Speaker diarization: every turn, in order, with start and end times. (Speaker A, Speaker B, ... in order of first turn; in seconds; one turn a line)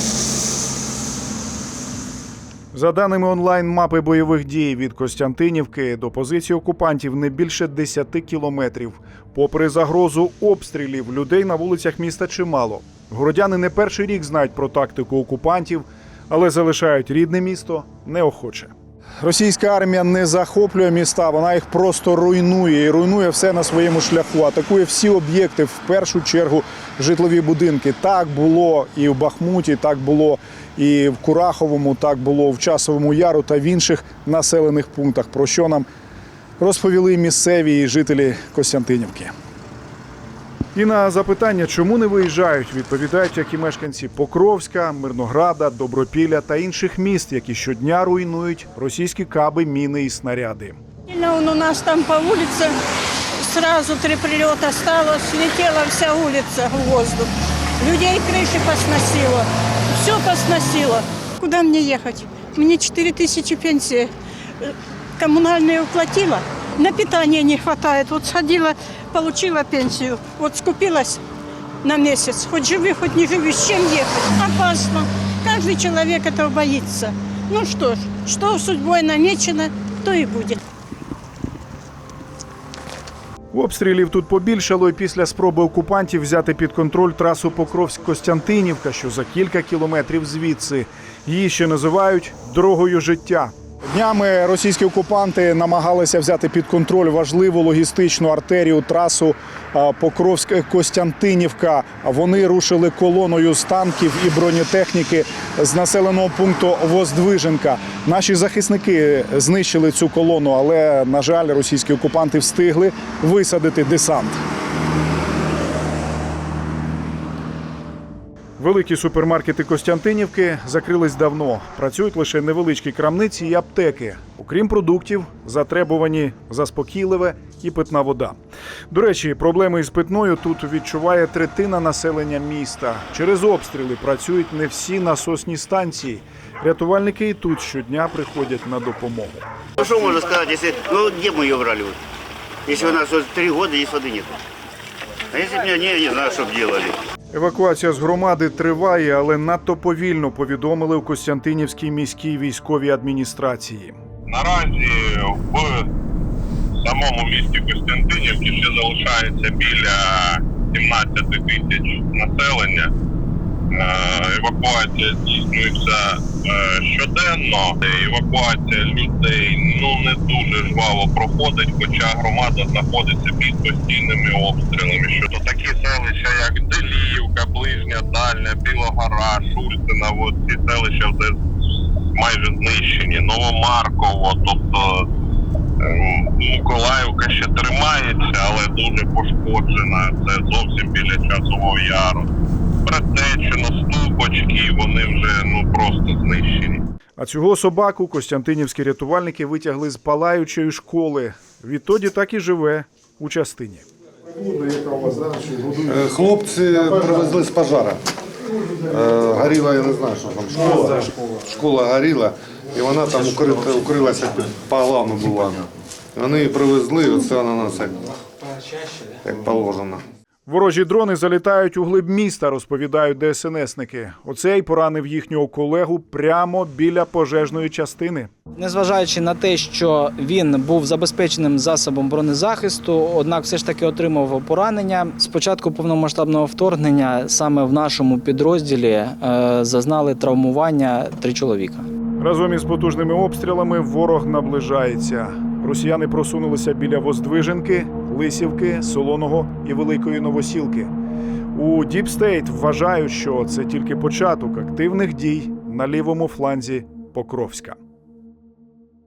Speaker A: 2.7-35.9
Speaker A: 36.6-39.3
Speaker A: 40.8-50.8
Speaker B: 51.1-52.8
Speaker B: 53.4-71.2
Speaker B: 71.8-80.6
Speaker A: 83.5-114.4
Speaker A: 118.6-128.4
Speaker A: 128.9-139.4
Speaker C: 139.8-142.0
Speaker C: 142.7-144.4
Speaker C: 145.3-147.0
Speaker A: 147.3-154.0
Speaker D: 154.3-155.9
Speaker D: 156.8-162.9
Speaker D: 163.7-181.4
Speaker D: 182.2-185.1
Speaker D: 185.8-192.3
Speaker D: 192.8-196.8
Speaker A: 197.2-203.9
Speaker A: 204.4-205.8
Speaker E: 205.9-208.0
Speaker E: 208.8-218.2
Speaker E: 219.2-220.0
Speaker A: 220.5-228.3
Speaker F: 228.6-241.9
Speaker A: 242.2-250.9
Speaker A: 251.5-257.8